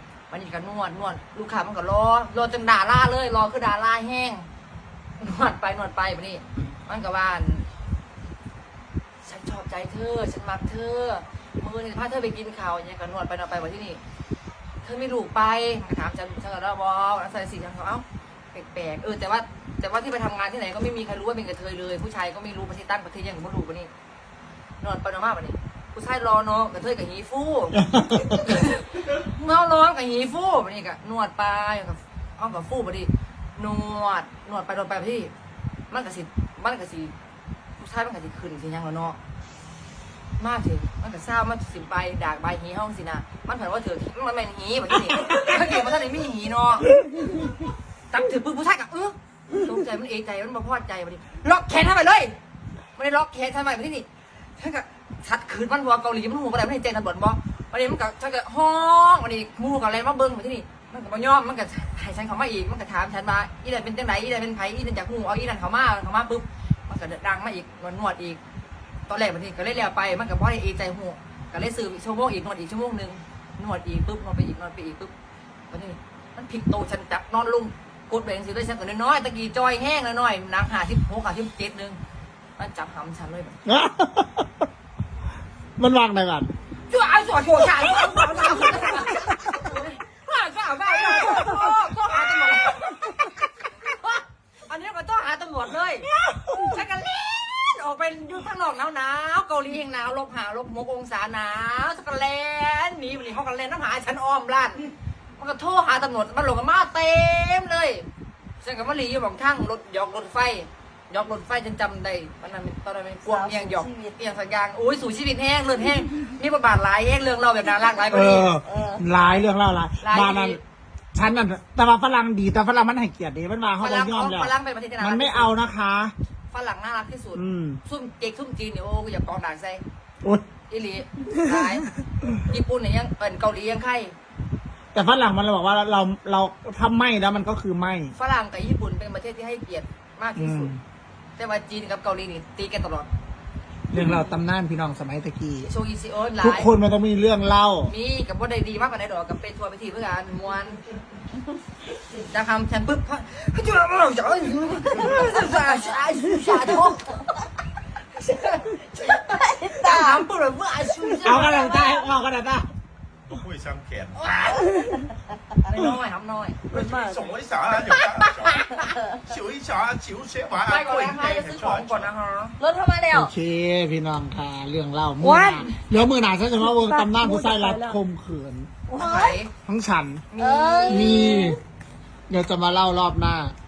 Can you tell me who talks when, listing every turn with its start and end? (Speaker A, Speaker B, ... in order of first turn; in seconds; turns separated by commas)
Speaker A: 0.3-4.5, Speaker A: 5.2-7.7, Speaker A: 9.2-14.0, Speaker A: 14.8-23.9, Speaker A: 24.8-35.3, Speaker A: 35.9-37.1, Speaker A: 37.8-39.2, Speaker A: 40.4-46.9, Speaker A: 48.1-52.4, Speaker A: 53.0-54.1, Speaker A: 54.6-68.4, Speaker A: 69.1-75.1, Speaker A: 75.7-82.0, Speaker A: 82.6-83.6, Speaker B: 83.7-84.6, Speaker B: 85.8-86.5, Speaker A: 86.9-104.8, Speaker A: 105.4-108.0, Speaker A: 108.6-118.5, Speaker C: 113.2-114.2, Speaker B: 118.1-120.6, Speaker C: 118.7-119.0, Speaker A: 120.0-120.6, Speaker B: 121.1-126.1, Speaker A: 123.8-125.5, Speaker A: 126.5-129.8, Speaker B: 127.3-127.8, Speaker A: 130.7-134.1, Speaker B: 134.9-138.1, Speaker A: 138.1-140.7, Speaker B: 140.3-140.8, Speaker A: 141.4-143.1, Speaker B: 143.9-145.7, Speaker A: 145.6-146.7, Speaker B: 146.4-147.9, Speaker A: 147.8-150.8, Speaker A: 152.2-157.2, Speaker A: 158.1-162.1, Speaker C: 159.5-160.1, Speaker B: 161.2-162.7, Speaker D: 163.3-164.5, Speaker A: 164.1-164.7, Speaker A: 165.6-166.7, Speaker D: 166.7-168.6, Speaker C: 166.7-167.3, Speaker C: 168.0-169.1, Speaker A: 168.5-168.9, Speaker D: 169.2-172.1, Speaker A: 170.6-172.6, Speaker C: 172.6-173.3, Speaker B: 173.1-178.7, Speaker C: 175.2-175.7, Speaker C: 176.7-177.9, Speaker C: 178.9-179.4, Speaker A: 178.9-179.5, Speaker B: 179.6-180.2, Speaker A: 180.3-181.2, Speaker C: 180.4-181.6, Speaker B: 180.8-181.6, Speaker B: 182.3-183.5